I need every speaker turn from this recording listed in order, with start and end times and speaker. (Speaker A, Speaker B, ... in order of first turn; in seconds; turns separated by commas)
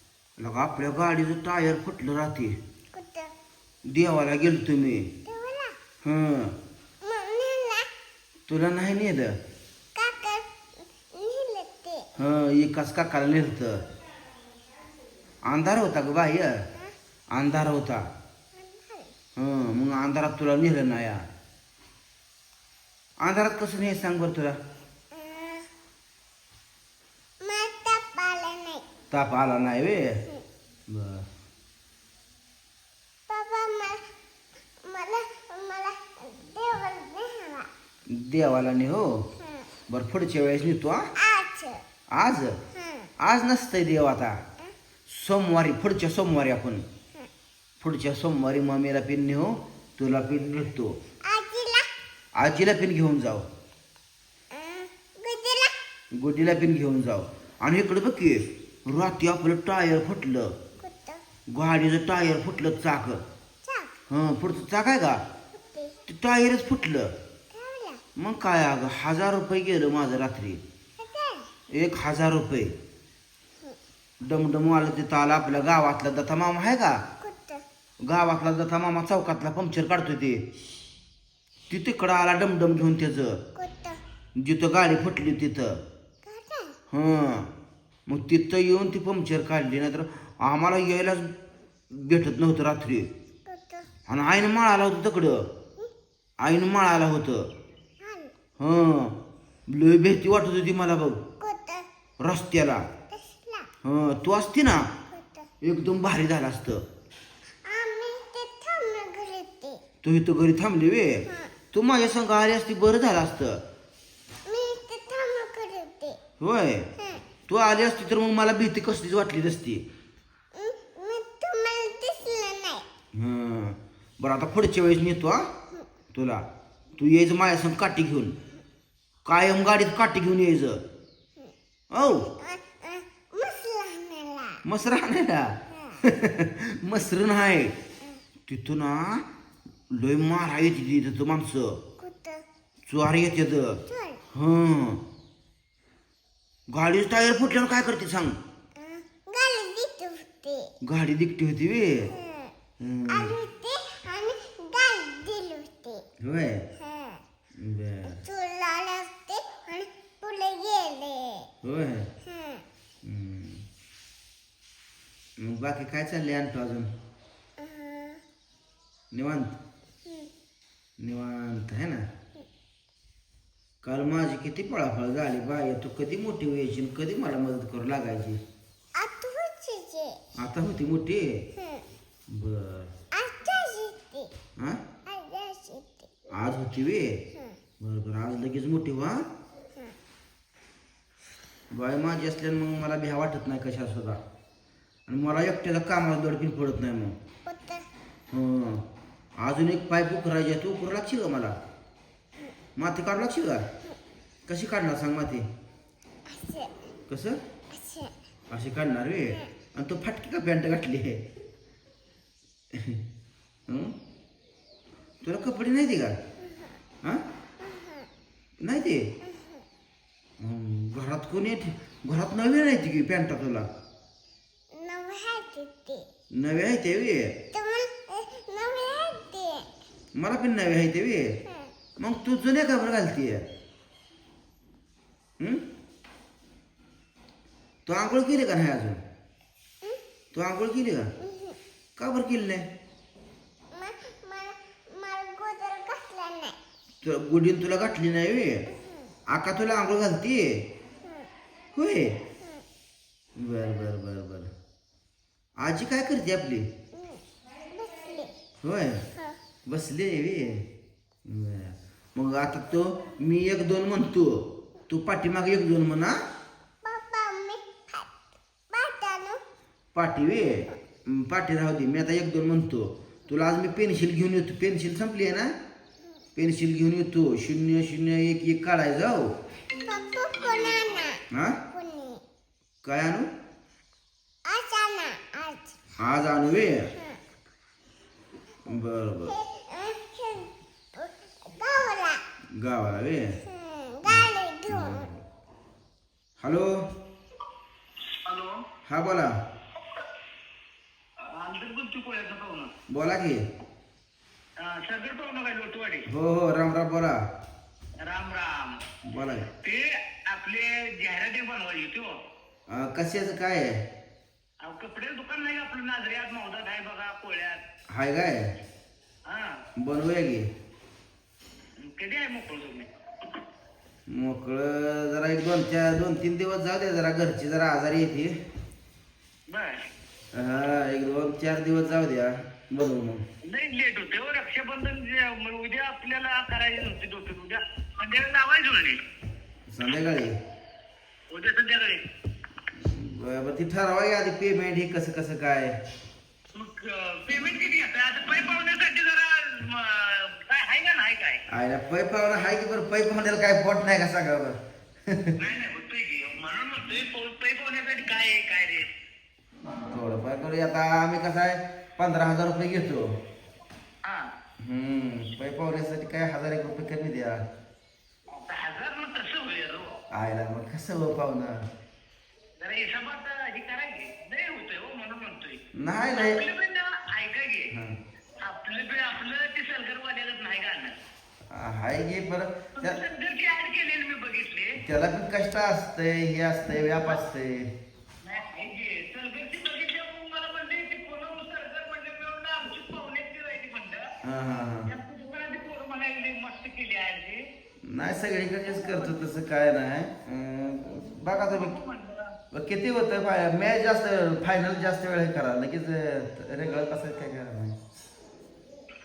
Speaker A: 0.4-2.5, Speaker B: 2.9-3.3, Speaker A: 3.9-5.1, Speaker B: 5.2-5.8, Speaker A: 6.0-6.5, Speaker B: 7.0-7.9, Speaker A: 8.5-9.3, Speaker B: 9.9-12.1, Speaker A: 12.2-13.8, Speaker A: 15.5-16.5, Speaker A: 17.3-18.1, Speaker B: 18.6-19.1, Speaker A: 19.4-21.2, Speaker A: 23.2-24.6, Speaker B: 25.1-25.7, Speaker B: 27.4-28.8, Speaker A: 29.1-30.2, Speaker A: 30.9-31.3, Speaker B: 33.3-34.0, Speaker B: 34.8-37.7, Speaker A: 38.1-39.3, Speaker B: 39.4-39.7, Speaker A: 39.9-41.1, Speaker B: 41.2-41.8, Speaker A: 42.1-42.6, Speaker B: 42.7-43.1, Speaker A: 43.2-44.4, Speaker A: 45.1-46.8, Speaker A: 47.8-51.0, Speaker B: 51.2-51.9, Speaker A: 52.4-53.5, Speaker B: 54.5-55.7, Speaker A: 56.2-60.5, Speaker B: 60.8-61.2, Speaker A: 61.5-63.2, Speaker B: 63.6-63.9, Speaker A: 64.1-65.2, Speaker B: 65.5-66.0, Speaker A: 66.0-67.1, Speaker B: 67.5-68.0, Speaker A: 68.2-70.6, Speaker B: 71.0-71.5, Speaker A: 71.7-72.7, Speaker A: 74.2-77.0, Speaker B: 77.2-77.6, Speaker A: 78.1-80.4, Speaker A: 81.7-83.4, Speaker B: 83.5-84.0, Speaker A: 84.4-85.8, Speaker B: 86.2-86.8, Speaker A: 86.9-87.5, Speaker A: 88.1-91.3, Speaker A: 91.9-93.1, Speaker B: 93.5-93.9, Speaker A: 94.1-95.5, Speaker A: 96.4-97.5, Speaker B: 98.0-98.3, Speaker A: 98.6-99.2, Speaker A: 99.7-101.2, Speaker B: 101.4-101.8, Speaker A: 102.2-102.8, Speaker B: 103.1-103.7, Speaker A: 103.8-104.9, Speaker B: 105.1-105.5, Speaker A: 105.6-106.8, Speaker B: 107.6-109.8, Speaker A: 110.0-113.6, Speaker B: 111.3-111.5, Speaker B: 114.5-116.2, Speaker A: 116.4-116.9, Speaker B: 117.0-117.2, Speaker A: 117.5-119.8, Speaker B: 120.5-122.8, Speaker A: 123.2-125.5, Speaker A: 126.1-126.4, Speaker A: 127.0-128.3, Speaker A: 129.2-130.8, Speaker A: 131.9-132.3, Speaker B: 132.3-134.6, Speaker A: 134.6-137.7, Speaker B: 135.7-136.0, Speaker A: 138.5-139.2, Speaker A: 139.9-141.8, Speaker B: 142.0-142.4, Speaker A: 142.9-143.8, Speaker B: 143.8-144.2, Speaker A: 144.3-145.0, Speaker A: 146.7-148.4, Speaker B: 148.8-150.7, Speaker A: 150.8-152.1, Speaker B: 152.1-152.5, Speaker A: 152.8-153.3, Speaker B: 153.1-156.0, Speaker A: 156.2-156.6, Speaker B: 156.8-157.2, Speaker A: 157.6-158.2, Speaker B: 158.2-161.5, Speaker A: 161.6-162.1, Speaker B: 162.2-162.6, Speaker A: 163.0-163.6, Speaker A: 165.4-166.9, Speaker B: 167.6-168.2, Speaker A: 169.1-169.6, Speaker B: 170.1-170.3, Speaker A: 171.0-172.1, Speaker A: 173.8-178.4, Speaker B: 178.9-180.2, Speaker A: 180.4-181.4, Speaker B: 181.6-181.8, Speaker A: 182.3-182.9, Speaker B: 183.1-184.3, Speaker B: 185.1-186.2, Speaker A: 186.3-187.2, Speaker A: 187.8-189.2, Speaker A: 191.7-194.2, Speaker A: 195.1-197.1, Speaker B: 197.4-197.9, Speaker A: 198.3-198.8, Speaker A: 199.4-201.6, Speaker A: 202.8-203.7, Speaker A: 204.5-205.5, Speaker B: 206.3-206.7, Speaker A: 207.1-207.4, Speaker B: 207.7-208.1, Speaker A: 208.5-211.2, Speaker A: 212.7-213.0, Speaker A: 213.7-213.9, Speaker A: 215.2-216.2, Speaker B: 217.6-218.1, Speaker A: 218.6-219.1, Speaker B: 219.2-219.6, Speaker A: 220.4-223.7, Speaker B: 224.7-226.1, Speaker A: 226.4-227.4, Speaker B: 227.5-229.7, Speaker A: 230.2-231.4, Speaker B: 231.4-231.7, Speaker A: 232.0-233.4, Speaker A: 235.4-235.7, Speaker A: 237.8-239.0, Speaker A: 240.3-241.1, Speaker B: 241.2-241.6, Speaker A: 242.0-242.7, Speaker B: 243.7-246.6, Speaker A: 247.0-248.7, Speaker A: 249.3-250.6, Speaker A: 251.7-252.2, Speaker A: 253.4-254.5, Speaker A: 255.6-256.7, Speaker B: 256.9-258.3, Speaker A: 258.6-259.0, Speaker A: 259.7-260.6, Speaker A: 261.2-266.2, Speaker B: 266.8-268.1, Speaker B: 268.7-269.4, Speaker A: 269.9-275.5, Speaker A: 276.4-279.3, Speaker B: 279.8-281.2, Speaker A: 281.3-281.6, Speaker B: 281.7-282.2, Speaker A: 282.8-283.3, Speaker B: 284.5-285.7, Speaker A: 286.0-286.9, Speaker A: 288.6-289.3, Speaker B: 289.3-292.2, Speaker A: 292.6-293.4, Speaker B: 293.4-295.1, Speaker A: 294.1-295.2, Speaker A: 296.4-296.7, Speaker C: 298.2-298.6, Speaker A: 298.8-299.3, Speaker C: 301.2-302.7, Speaker A: 302.9-303.4, Speaker C: 304.6-306.1, Speaker A: 306.1-307.2, Speaker C: 308.0-308.8, Speaker A: 309.1-309.5, Speaker C: 309.5-312.2, Speaker A: 312.7-313.8, Speaker C: 314.6-317.6, Speaker A: 317.9-318.5, Speaker C: 319.2-319.6, Speaker A: 319.8-320.5, Speaker C: 321.8-322.9, Speaker A: 324.1-328.4, Speaker C: 329.5-329.8, Speaker A: 330.3-333.2, Speaker C: 333.4-339.0, Speaker A: 339.7-340.4, Speaker C: 341.3-342.1, Speaker A: 342.7-345.8, Speaker C: 346.5-351.4, Speaker A: 351.5-355.3, Speaker C: 355.4-358.9, Speaker A: 359.9-363.1, Speaker C: 364.0-364.3, Speaker A: 364.6-367.4, Speaker C: 368.3-370.0, Speaker A: 370.1-371.6, Speaker C: 372.6-377.7, Speaker A: 375.7-376.4, Speaker C: 378.4-381.0, Speaker A: 381.5-383.0, Speaker C: 382.8-384.8, Speaker A: 384.8-387.7, Speaker C: 388.2-394.1, Speaker A: 394.2-394.9, Speaker C: 394.8-397.4, Speaker A: 397.9-401.8, Speaker C: 398.8-399.2, Speaker C: 401.3-402.4, Speaker A: 402.5-407.8